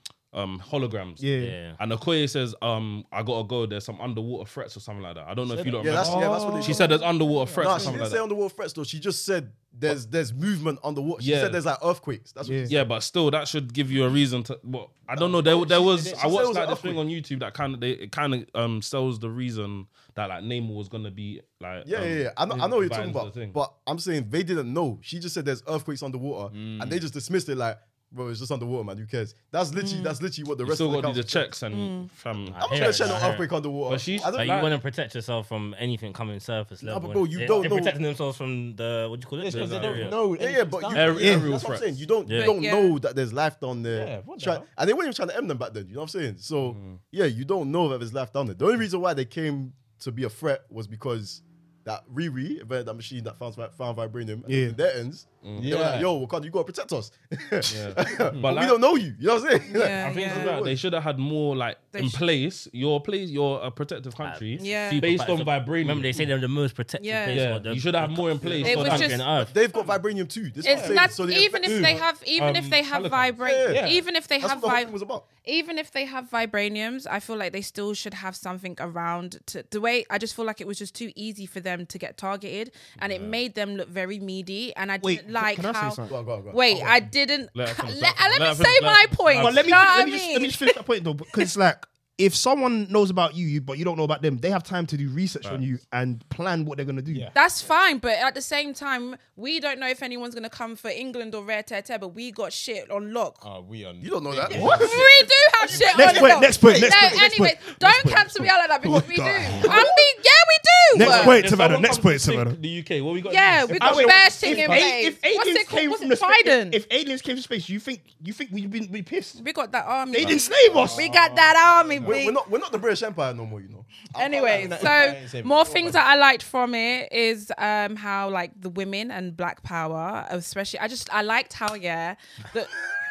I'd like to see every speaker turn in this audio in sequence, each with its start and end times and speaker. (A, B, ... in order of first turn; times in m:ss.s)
0:00.3-0:08.2 A
0:01.2-0:01.6 B
0:01.4-0:01.8 C
0:05.5-0:06.8 D
0:05.8-0:06.9 E
0:06.0-0:06.9 B
0:07.3-0:07.9 D
0:07.6-0:12.8 E
0:11.2-0:11.6 A
0:12.4-0:12.7 B
0:12.7-0:23.6 A
0:15.2-0:16.4 D
0:15.5-0:17.0 E
0:21.8-0:31.5 E
0:26.5-0:27.0 D
0:29.7-0:30.2 F
0:30.6-0:34.8 A
0:31.7-0:32.1 F
0:32.4-0:33.5 C
0:32.6-0:34.6 E
0:34.3-0:40.2 C
0:36.8-0:38.0 E
0:39.4-0:41.4 D
0:39.5-0:40.2 A
0:40.3-1:00.8 E
0:40.9-0:42.0 A
0:41.2-0:41.5 B
0:42.2-0:42.5 C
0:42.3-0:43.0 F
0:43.9-0:44.7 D
0:46.6-0:47.0 A
0:54.5-0:54.8 B
0:55.4-0:56.0 A
0:55.6-0:56.1 D
0:57.6-0:58.8 A
0:58.2-0:58.5 D
0:59.6-1:00.6 F
1:00.0-1:06.3 A
1:01.9-1:02.2 F
1:04.2-1:09.5 C
1:04.6-1:05.1 F
1:07.0-1:07.4 F
1:07.3-1:09.2 A
1:08.4-1:08.7 D
1:08.6-1:09.2 F
1:09.4-1:12.0 E
1:10.6-1:11.2 D
1:10.6-1:14.9 F
1:12.4-1:13.4 A
1:13.4-1:13.8 E
1:13.6-1:14.0 D
1:14.4-1:15.2 E
1:15.4-1:30.8 F
1:23.0-1:23.4 A
1:25.0-1:26.2 B
1:26.1-1:27.0 E
1:27.5-1:30.0 A
1:29.4-1:37.3 B
1:37.1-1:37.4 D
1:37.3-1:43.4 F
1:43.4-1:45.3 D
1:44.0-1:47.2 E
1:44.5-1:44.9 B
1:44.5-1:51.4 F
1:45.9-1:50.0 B
1:50.9-1:52.6 B
1:50.9-1:54.2 A
1:53.3-1:56.8 F
1:53.7-1:59.4 B
1:54.3-1:54.9 D
1:59.4-2:02.4 F
2:00.1-2:01.1 B
2:00.2-2:02.2 D
2:02.0-2:05.1 E
2:04.1-2:12.8 F
2:04.3-2:06.0 D